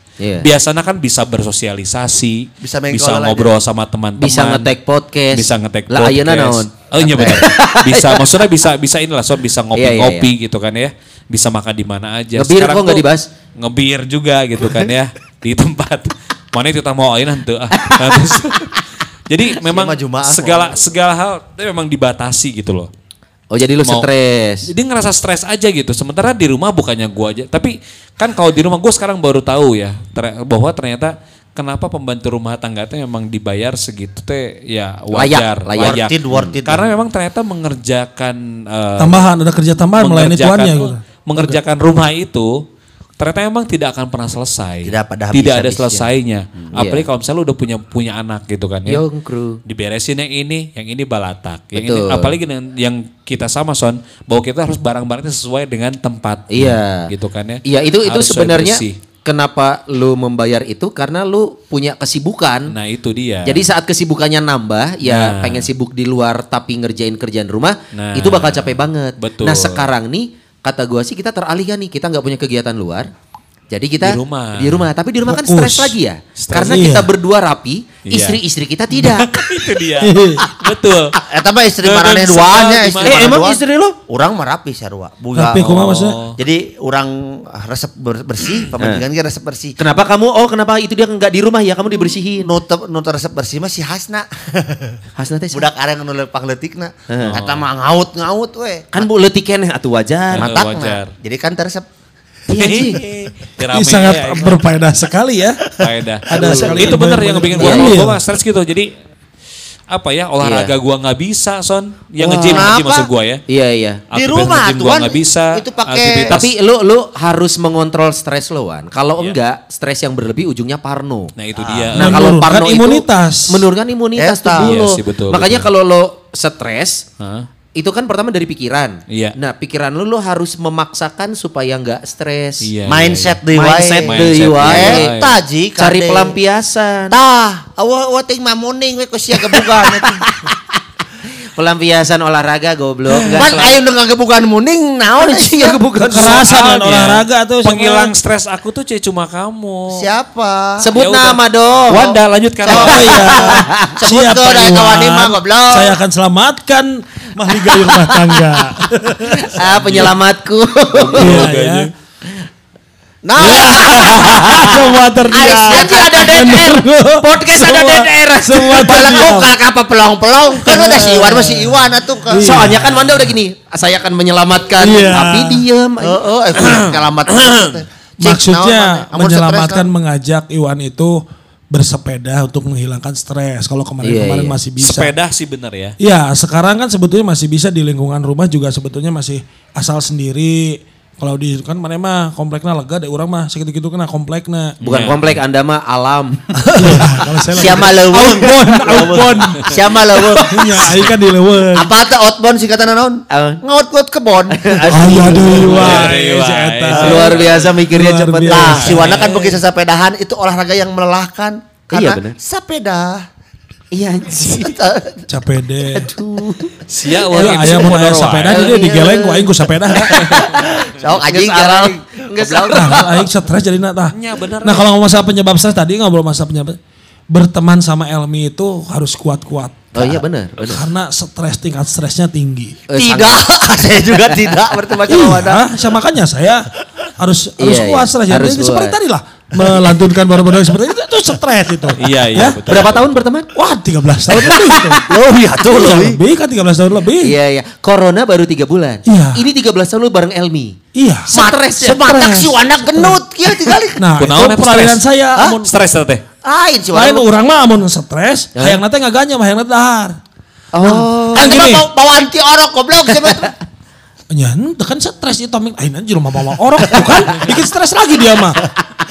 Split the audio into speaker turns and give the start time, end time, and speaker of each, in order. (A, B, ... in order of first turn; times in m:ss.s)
0:00.2-0:00.5 A
0:00.4-0:04.7 B
0:02.6-0:03.5 C
0:04.2-0:08.2 A
0:05.3-0:13.0 B
0:09.8-0:10.3 A
0:12.4-0:13.3 A
0:13.6-0:18.8 B
0:17.7-0:18.8 A
0:19.3-0:22.9 B
0:19.6-0:20.9 C
0:23.5-0:24.7 A
0:23.8-0:24.1 B
0:24.7-0:39.3 B
0:35.1-0:36.5 A
0:35.8-0:36.8 C
0:39.0-0:41.6 D
0:40.0-0:42.6 B
0:43.2-0:49.0 B
0:44.8-0:46.0 C
0:46.7-0:47.1 A
0:48.9-0:49.6 A
0:49.7-0:59.0 B
0:51.7-0:52.4 A
0:56.5-0:57.1 A
0:57.6-1:02.7 A
1:02.7-1:03.6 B
1:03.5-1:13.1 A
1:05.0-1:05.7 B
1:07.9-1:09.8 B
1:13.7-1:19.4 A
1:14.0-1:14.9 B
1:15.3-1:15.9 D
1:16.4-1:16.9 B
1:16.6-1:17.1 D
1:18.1-1:18.4 B
1:19.0-1:21.2 B
1:20.0-1:20.4 D
1:21.3-1:25.8 C
1:21.8-1:23.4 B
1:23.0-1:24.0 A
1:25.4-1:26.2 D
1:25.6-1:26.4 B
1:26.4-1:29.8 C
1:29.8-1:32.5 A
1:32.4-1:35.0 C
1:35.2-1:35.7 A
1:35.5-1:39.1 C
1:37.1-1:37.4 A
1:37.3-1:37.7 B
1:38.9-1:40.5 A
1:40.3-1:41.1 B
1:40.4-1:41.9 C
1:42.5-1:43.0 A
1:42.6-1:44.6 B
1:43.7-1:48.2 D
1:45.8-1:48.9 B
1:46.4-1:48.0 A
1:49.9-1:53.4 B
1:50.4-1:50.7 A
1:52.2-1:52.7 A
1:52.4-1:53.1 C
1:53.5-1:54.0 A
1:54.1-1:56.5 B
1:54.1-1:56.4 C
1:56.3-2:07.0 A
2:01.4-2:02.4 B
2:02.0-2:03.7 D
2:04.2-2:04.8 C
2:04.6-2:05.7 B
2:07.2-2:07.5 B
2:07.8-2:12.7 A
2:09.1-2:09.4 B
2:12.6-2:13.4 B
2:12.9-2:16.4 C
2:13.5-2:15.1 A
2:14.0-2:15.4 B
2:15.8-2:17.2 A
2:17.1-2:20.2 C
2:19.5-2:20.6 A
2:21.6-2:23.8 A
2:23.1-2:23.7 B
2:23.3-2:25.8 C
2:25.2-2:26.5 A
2:26.0-2:28.1 D
2:26.1-2:30.1 B
2:29.9-2:30.9 C
2:30.8-2:32.2 A
2:30.9-2:33.5 B
2:32.7-2:36.0 C
2:32.7-2:34.0 A
2:32.7-2:39.6 D
2:37.8-2:38.4 A
2:39.4-2:41.5 A
2:39.6-2:40.1 B
2:41.0-2:41.9 B
2:41.2-2:41.9 D
2:43.2-2:46.6 C
2:43.4-2:49.5 D
2:44.3-2:44.8 A
2:45.4-2:49.0 A
2:48.8-2:52.7 C
2:50.9-2:51.7 D
2:50.9-2:51.4 A
2:52.3-2:53.1 D
2:52.4-2:56.2 A
2:54.8-2:55.6 D
2:56.0-2:59.9 C
2:56.6-2:57.7 B
2:58.2-3:05.1 D
3:04.0-3:04.6 A
3:04.8-3:06.0 B
3:06.0-3:14.8 D
3:14.8-3:15.4 B
3:14.8-3:17.0 A
3:16.6-3:19.8 D
3:17.5-3:20.9 C
3:18.8-3:19.3 A
3:20.1-3:20.9 A
3:20.4-3:21.9 D
3:21.8-3:25.5 C
3:23.3-3:23.6 A
3:24.5-3:26.2 A
3:24.9-3:29.2 D
3:25.6-3:27.7 B
3:26.9-3:28.8 A
3:28.5-3:33.3 C
3:28.7-3:29.3 B
3:31.9-3:32.4 A
3:33.9-3:34.8 A
3:34.6-3:35.2 C
3:35.3-3:36.1 D
3:36.0-3:36.8 A
3:36.9-3:38.7 B
3:37.3-3:37.9 A
3:37.3-3:40.5 D
3:38.5-3:39.4 C
3:39.9-3:40.7 A
3:40.0-3:43.2 C
3:41.2-3:43.3 A
3:42.7-3:46.8 D
3:44.1-3:44.9 B
3:47.3-3:52.8 D
3:49.9-3:50.8 A
3:52.9-3:53.5 A
3:53.0-3:55.6 C
3:55.1-4:02.6 D
3:57.6-3:59.0 A
4:02.0-4:03.2 B
4:02.7-4:03.5 A
4:03.5-4:05.1 D
4:04.4-4:04.9 A
4:05.1-4:06.2 C
4:05.6-4:07.4 D
4:07.2-4:10.8 A
4:09.0-4:09.4 D
4:11.0-4:11.3 D
4:11.3-4:12.1 A
4:11.3-4:14.0 C
4:12.0-4:13.2 D
4:14.0-4:15.7 D
4:14.2-4:15.0 B
4:15.4-4:15.6 C
4:15.6-4:16.2 B
4:16.4-4:17.3 C
4:16.9-4:20.2 D
4:18.6-4:18.8 A
4:20.7-4:21.6 A
4:20.8-4:23.5 C
4:21.3-4:21.9 D
4:23.2-4:23.5 A
4:24.3-4:28.6 D